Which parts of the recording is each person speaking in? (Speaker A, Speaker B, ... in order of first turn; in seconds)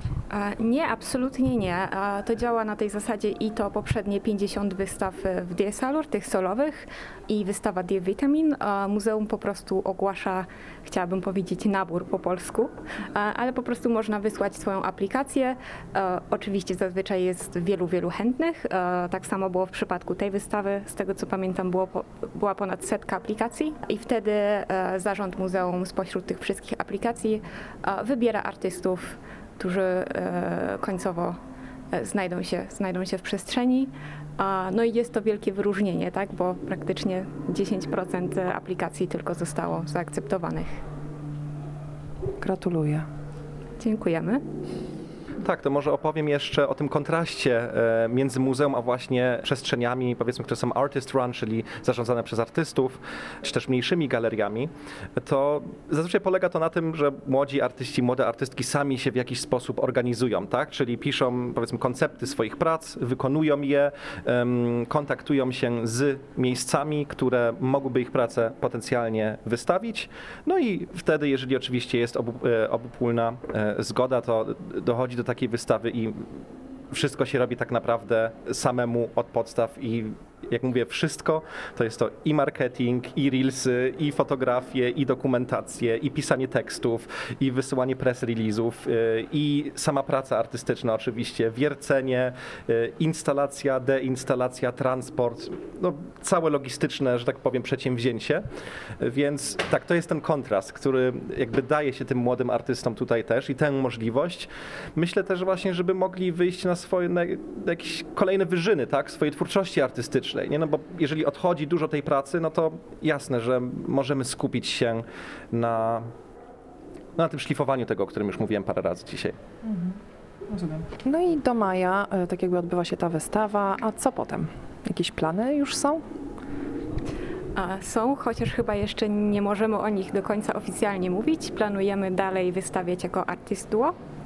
Speaker A: 0.3-31.4, 31.9-40.8, 43.8-44.4, 127.6-133.9
Speaker B: 42.4-43.1, 119.7-120.0, 120.5-126.0
Speaker C: 45.4-76.4, 76.9-98.5, 99.0-116.1, 117.2-119.4